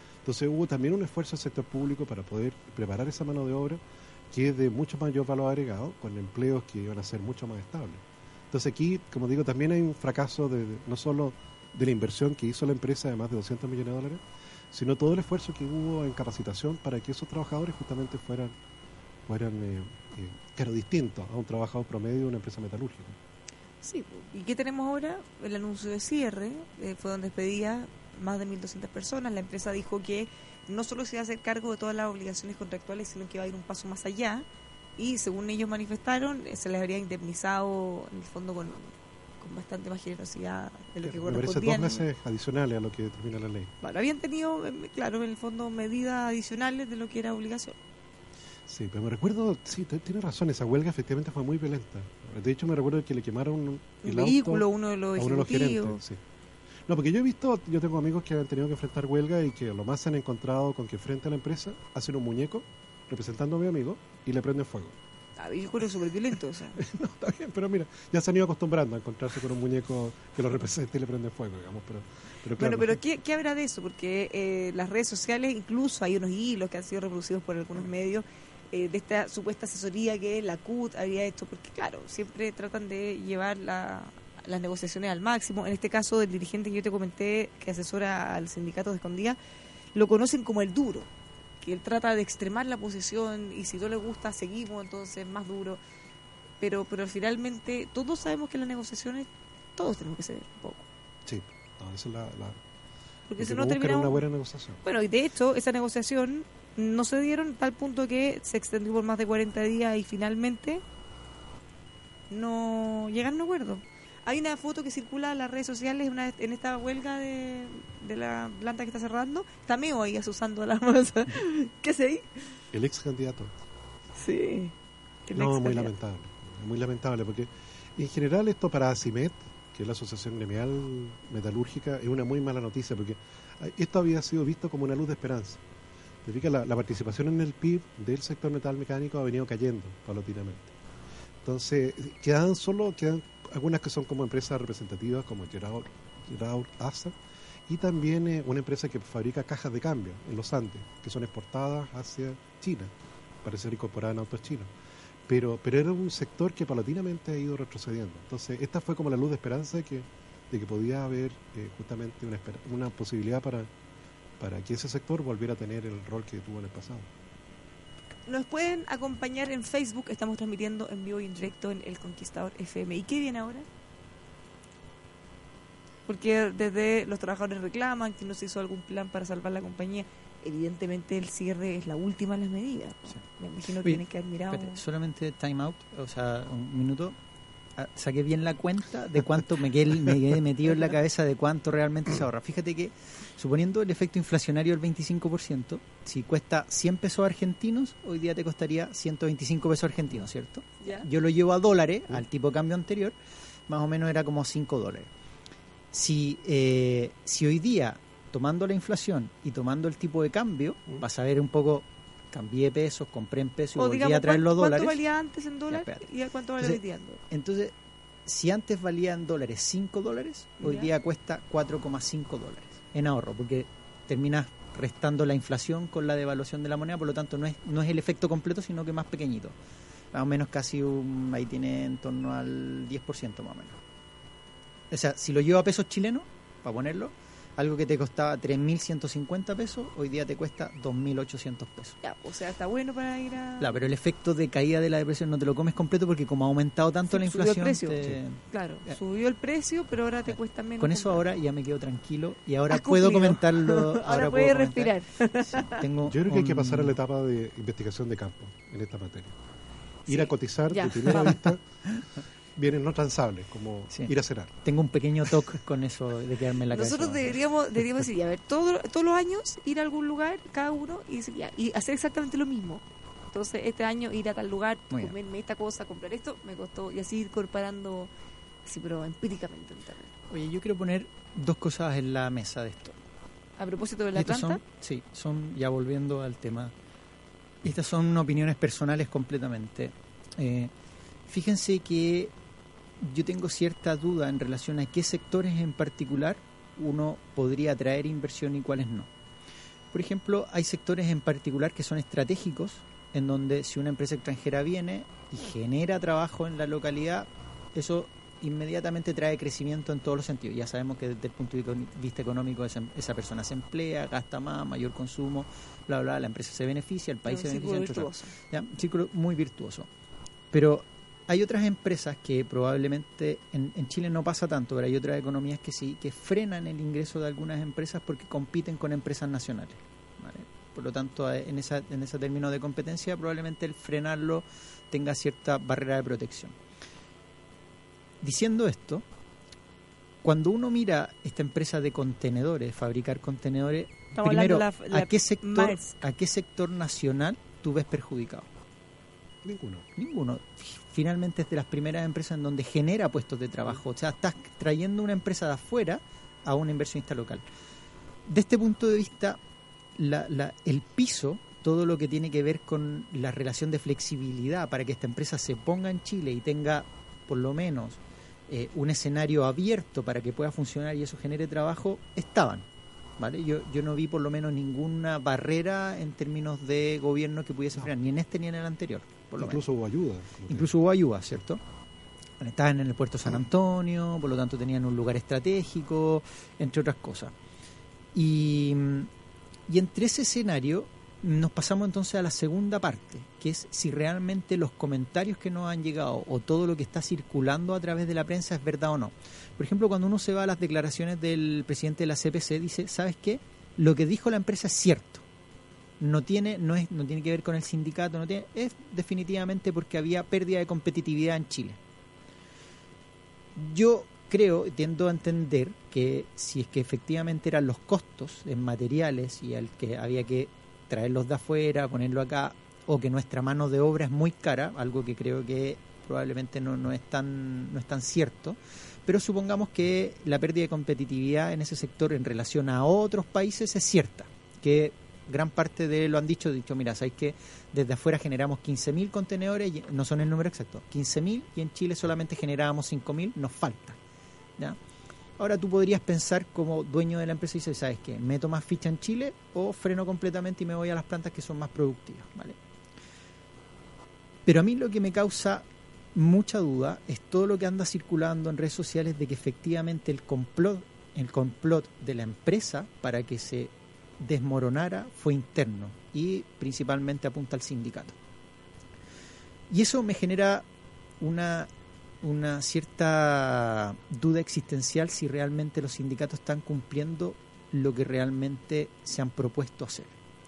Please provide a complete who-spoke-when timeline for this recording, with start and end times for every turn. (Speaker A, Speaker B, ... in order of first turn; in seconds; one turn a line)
Speaker A: 0.2-18.5
Speaker A: 19.3-23.2
Speaker B: 23.8-34.5
Speaker B: 35.0-42.0
Speaker A: 41.0-43.7
Speaker B: 43.8-47.8
Speaker A: 48.7-54.6
Speaker B: 54.0-56.0
Speaker A: 55.2-56.2
Speaker A: 56.9-65.0
Speaker B: 65.4-66.8
Speaker A: 66.8-73.0
Speaker B: 72.6-89.4
Speaker B: 90.0-91.1
Speaker B: 91.6-95.8
Speaker B: 96.6-100.9
Speaker A: 101.3-102.6
Speaker B: 103.3-104.2
Speaker A: 103.4-104.8
Speaker B: 104.8-110.8
Speaker B: 112.3-122.6
Speaker A: 122.7-123.5
Speaker B: 124.2-124.7
Speaker B: 125.3-125.9
Speaker A: 125.3-135.6
Speaker A: 136.2-140.7
Speaker A: 141.4-147.2
Speaker A: 147.7-152.9
Speaker A: 153.4-154.7
Speaker A: 155.3-163.7
Speaker A: 164.4-167.1
Speaker B: 168.3-173.7
Speaker B: 176.1-184.8
Speaker C: 183.8-187.2
Speaker C: 187.8-203.2
Speaker C: 203.7-205.1
Speaker C: 205.9-215.0
Speaker B: 213.8-217.2
Speaker C: 215.7-216.1
Speaker C: 216.6-217.7
Speaker C: 218.3-229.6
Speaker B: 220.6-220.9
Speaker C: 230.1-233.8
Speaker C: 234.9-242.0
Speaker B: 242.0-243.9
Speaker C: 243.6-248.9
Speaker B: 247.1-248.0
Speaker B: 248.5-251.2
Speaker C: 250.8-257.0
Speaker B: 252.7-255.8
Speaker A: 256.1-259.4
Speaker B: 260.1-261.4
Speaker A: 260.1-261.6
Speaker A: 262.6-264.5
Speaker C: 264.6-267.4
Speaker B: 266.7-278.1
Speaker B: 278.7-280.1
Speaker C: 280.3-283.0
Speaker B: 283.6-284.6
Speaker C: 284.2-286.7
Speaker C: 287.6-290.7
Speaker C: 291.3-292.3
Speaker C: 293.0-299.1
Speaker C: 299.9-319.9
Speaker B: 317.2-318.3
Speaker C: 320.5-336.6
Speaker C: 338.2-339.0
Speaker C: 340.2-348.5
Speaker B: 344.1-345.9
Speaker A: 349.4-349.9
Speaker C: 350.0-357.4
Speaker C: 358.3-359.4
Speaker C: 360.0-372.7
Speaker C: 373.2-379.6
Speaker A: 379.4-380.7
Speaker C: 380.5-381.6
Speaker C: 382.4-387.3
Speaker C: 388.1-389.1
Speaker C: 389.7-405.2
Speaker C: 406.0-411.8
Speaker C: 413.6-444.0
Speaker C: 445.4-452.6
Speaker C: 454.5-468.1
Speaker C: 469.7-470.6
Speaker C: 471.2-471.7
Speaker C: 472.2-480.1